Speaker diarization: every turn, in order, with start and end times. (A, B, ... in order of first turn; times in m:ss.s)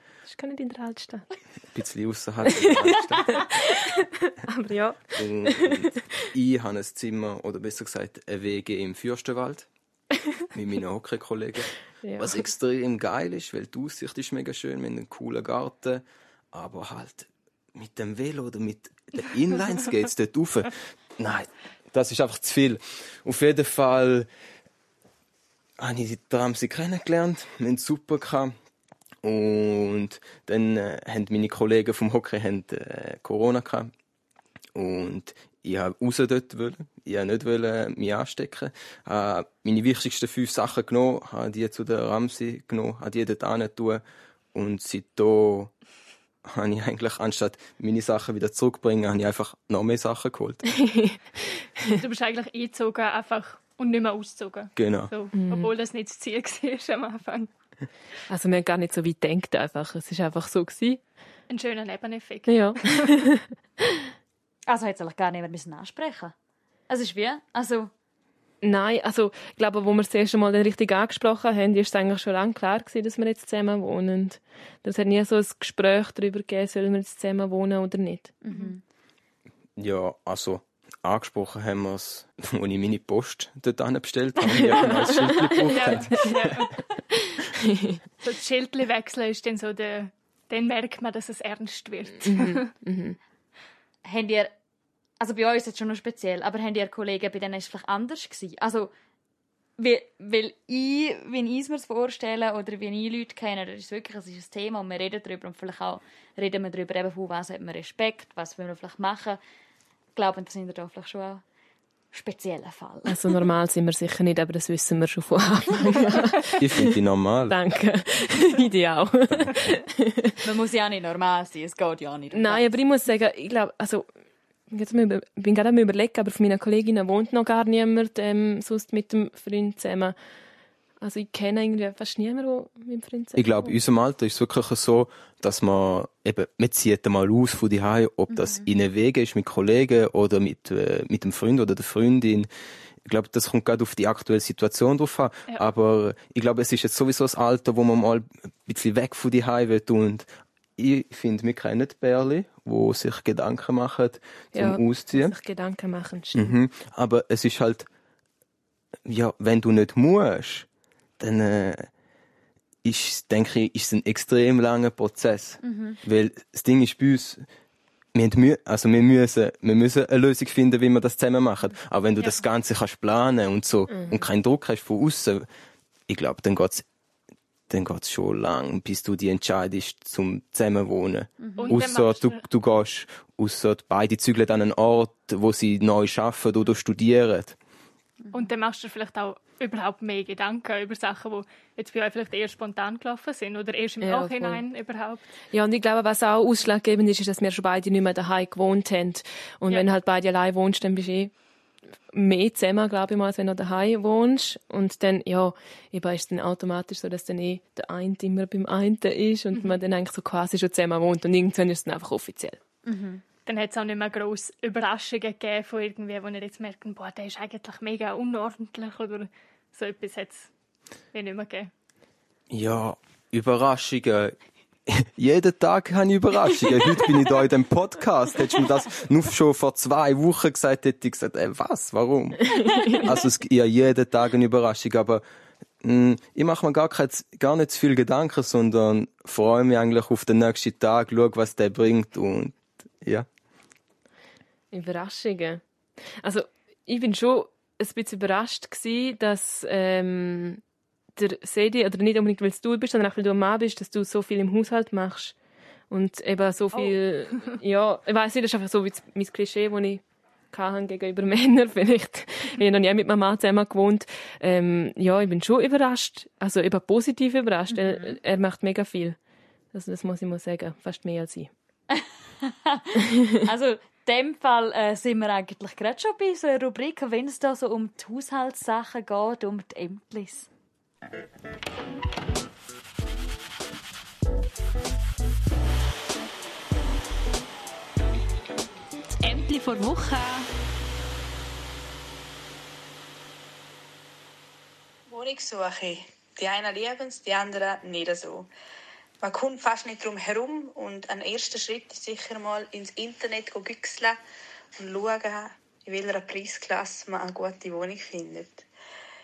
0:00.3-0:01.3 A
0:01.7-0:03.4 B
0:02.5-0:06.0 A
0:05.2-0:09.7 B
0:10.5-0:24.3 B
0:12.0-0:12.4 A
0:25.8-0:28.5 B
0:29.2-0:33.9 B
0:34.8-0:44.0 B
0:44.5-0:45.7 B
0:46.4-0:50.7 B
0:50.7-0:52.0 A
0:51.9-0:57.5 C
0:54.8-0:55.1 B
0:55.4-0:55.7 A
0:58.3-1:01.0 A
1:01.5-1:03.1 C
1:02.5-1:04.1 A
1:04.7-1:06.3 D
1:06.9-1:07.9 D
1:08.6-1:18.4 A
1:18.4-1:18.8 D
1:19.8-1:26.7 B
1:24.8-1:25.9 A
1:25.7-1:26.7 C
1:27.3-1:28.0 A
1:28.2-1:32.7 C
1:32.2-1:33.2 A
1:34.0-1:34.5 D
1:35.2-1:38.9 D
1:39.8-1:49.4 D
1:50.2-1:51.4 D
1:52.1-1:53.3 D
1:53.1-1:56.9 A
1:56.6-1:57.6 B
1:57.5-2:00.4 A
2:00.4-2:02.7 D
2:02.3-2:04.1 A
2:04.7-2:10.2 A
2:11.0-2:13.7 A
2:13.4-2:22.5 B
2:18.3-2:18.7 D
2:23.0-2:35.4 B
2:34.5-2:36.6 A
2:36.3-2:37.9 B
2:39.1-2:40.7 B
2:41.2-2:41.9 B
2:42.8-2:47.5 B
2:45.6-2:46.0 D
2:48.1-2:55.5 B
2:53.9-2:54.2 A
2:56.1-2:56.8 B
2:57.7-3:07.6 B
3:01.4-3:01.8 D
3:01.6-3:02.4 C
3:08.3-3:15.3 C
3:14.0-3:14.6 A
3:15.5-3:21.3 A
3:22.1-3:32.6 A
3:29.5-3:29.8 C
3:32.8-3:33.2 D
3:33.5-3:40.5 C
3:41.1-3:41.7 C
3:42.5-3:55.2 B
3:52.6-3:52.9 A
3:55.8-4:03.3 B
4:04.7-4:05.6 A
4:06.2-4:10.6 A
4:11.2-4:15.4 A
4:15.9-4:29.2 A
4:27.7-4:28.2 D
4:29.7-4:31.5 A
4:31.9-4:40.5 D
4:49.2-4:50.5 C
4:55.1-4:58.5 E
4:59.2-5:04.2 E
5:04.8-5:08.7 E